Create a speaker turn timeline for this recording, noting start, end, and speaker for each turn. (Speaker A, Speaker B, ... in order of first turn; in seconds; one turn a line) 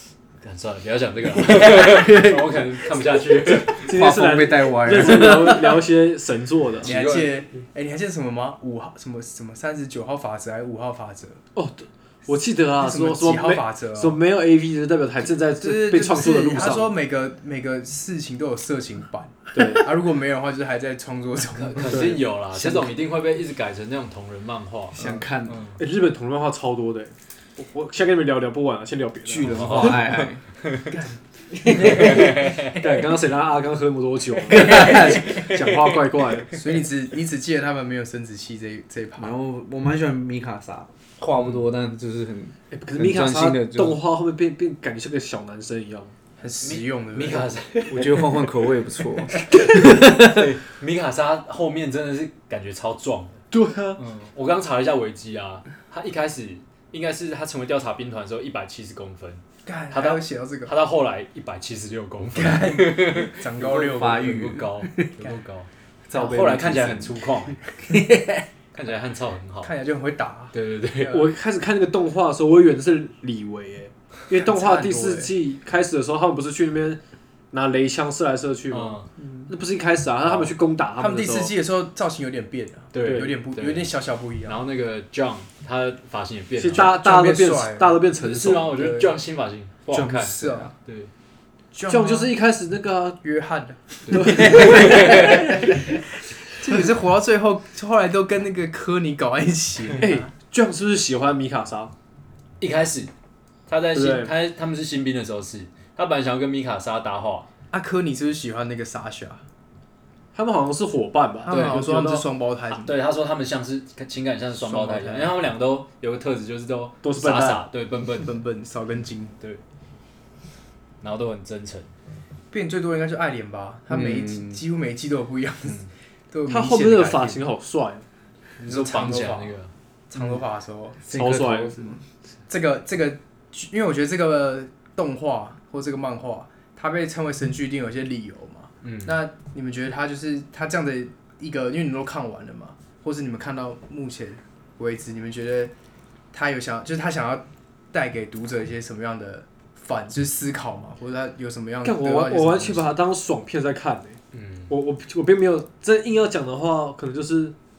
Speaker A: 0.4-3.9
Speaker B: 3.7-5.7
Speaker C: 3.7-6.9
Speaker A: 6.8-7.3
Speaker D: 6.8-11.4
Speaker C: 11.5-16.9
Speaker D: 12.8-14.2
Speaker D: 15.6-22.2
Speaker C: 19.5-19.9
Speaker A: 21.6-25.8
Speaker C: 21.9-22.2
Speaker B: 22.5-22.9
Speaker B: 24.9-25.7
Speaker C: 25.8-29.9
Speaker B: 29.2-30.4
Speaker A: 29.4-30.9
Speaker D: 30.9-32.4
Speaker B: 31.7-32.3
Speaker A: 31.9-32.8
Speaker C: 32.7-36.5
Speaker B: 34.5-35.5
Speaker D: 34.5-35.2
Speaker D: 36.5-39.3
Speaker B: 39.2-44.0
Speaker A: 41.3-41.7
Speaker C: 42.7-46.1
Speaker D: 46.4-47.5
Speaker A: 46.6-48.3
Speaker B: 47.9-50.2
Speaker A: 49.4-53.5
Speaker C: 53.5-54.0
Speaker A: 54.0-67.6
Speaker D: 59.6-60.7
Speaker D: 62.3-65.4
Speaker B: 63.6-64.8
Speaker B: 66.1-67.2
Speaker B: 67.9-68.3
Speaker A: 68.7-69.7
Speaker D: 69.6-71.3
Speaker A: 70.5-71.2
Speaker C: 71.1-77.0
Speaker D: 74.3-75.3
Speaker C: 77.5-79.0
Speaker A: 78.7-79.1
Speaker C: 79.5-81.5
Speaker A: 80.2-80.5
Speaker D: 81.0-84.6
Speaker A: 82.9-83.9
Speaker C: 83.0-83.3
Speaker A: 84.4-86.9
Speaker C: 86.6-88.7
Speaker D: 86.7-89.2
Speaker A: 88.2-91.1
Speaker B: 89.9-90.7
Speaker D: 90.2-90.7
Speaker D: 91.7-92.3
Speaker C: 91.9-93.2
Speaker D: 93.2-100.3
Speaker A: 94.1-95.6
Speaker C: 94.1-95.4
Speaker C: 99.9-101.9
Speaker A: 102.6-103.1
Speaker A: 103.7-107.5
Speaker C: 103.9-104.3
Speaker D: 107.7-109.4
Speaker C: 110.3-112.2
Speaker D: 111.4-112.9
Speaker A: 111.5-111.8
Speaker A: 112.7-118.3
Speaker D: 114.6-115.3
Speaker C: 117.0-117.6
Speaker D: 118.2-119.3
Speaker A: 121.0-121.9
Speaker D: 122.5-125.8
Speaker B: 123.9-124.6
Speaker D: 126.3-127.5
Speaker C: 126.5-128.0
Speaker A: 128.6-129.7
Speaker D: 128.6-129.6
Speaker D: 130.1-131.2
Speaker B: 131.1-132.0
Speaker C: 131.1-131.8
Speaker D: 132.5-145.7
Speaker A: 138.8-139.2
Speaker D: 146.3-152.9
Speaker C: 151.8-157.5
Speaker A: 154.3-154.7